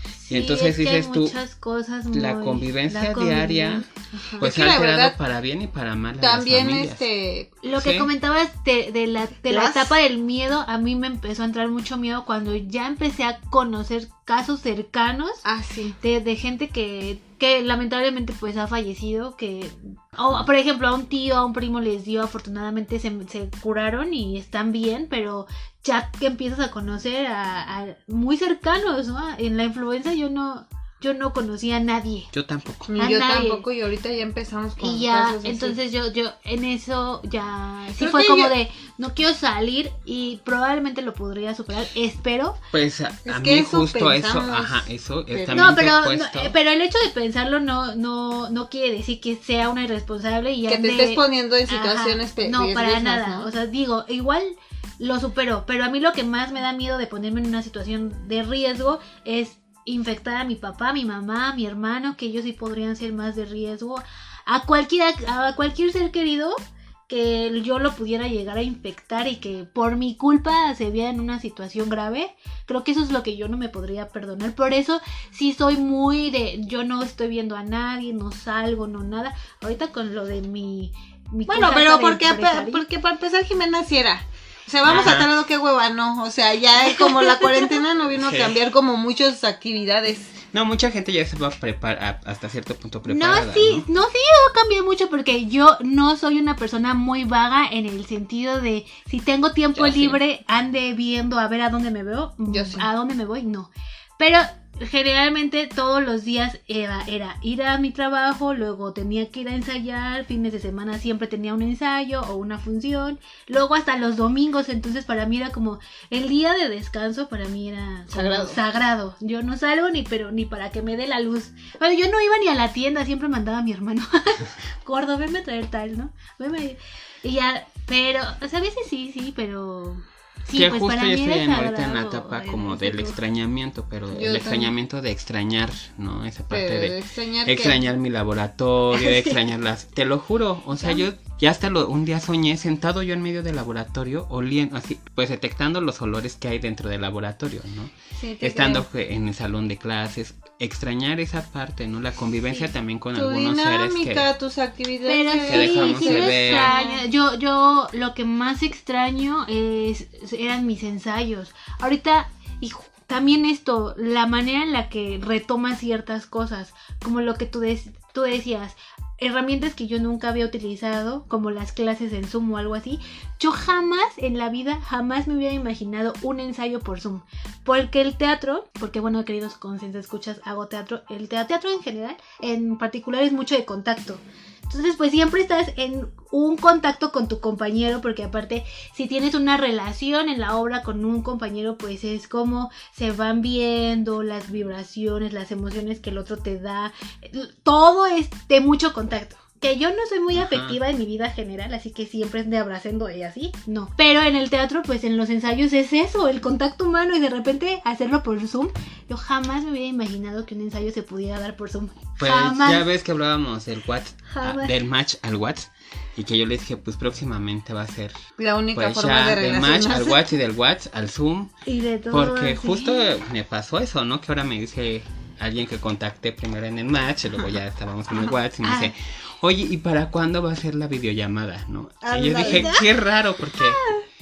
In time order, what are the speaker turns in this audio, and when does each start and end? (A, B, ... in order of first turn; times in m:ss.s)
0:00.2-0:03.9 A
0:00.3-0:01.4 B
0:02.1-0:03.9 B
0:04.2-0:05.2 C
0:04.4-0:07.1 B
0:06.2-0:07.5 C
0:07.6-0:15.4 A
0:07.7-0:08.1 B
0:09.5-0:09.9 C
0:15.4-0:16.0 C
0:16.0-0:32.3 A
0:32.3-0:32.9 B
0:32.9-0:35.8 C
0:33.0-0:33.6 A
0:34.8-0:42.6 A
0:38.0-0:38.6 C
0:42.7-0:46.6 B
0:43.2-0:45.8 C
0:45.5-1:06.6 A
0:50.7-0:53.5 C
1:07.1-1:22.8 A
1:21.5-1:30.4 C
1:24.8-1:25.3 B
1:24.9-1:25.2 A
1:26.8-1:27.8 A
1:28.2-1:28.6 B
1:30.5-1:33.9 B
1:33.1-2:13.2 A
1:39.8-1:40.2 B
1:42.5-1:42.9 C
1:58.1-1:58.6 C
2:10.5-2:34.3 B
2:14.1-2:14.7 C
2:16.5-2:17.8 C
2:28.2-2:28.9 C
2:33.1-2:37.0 C
2:35.1-3:32.9 A
2:35.5-2:36.8 B
3:20.3-3:20.8 B
3:32.2-3:38.2 B
3:34.3-3:34.7 A
3:38.4-3:40.2 C
3:38.8-3:41.5 B
3:41.7-3:43.1 A
3:42.1-3:53.8 B
3:48.3-3:48.9 A
3:52.0-3:52.8 C
3:52.5-3:52.8 A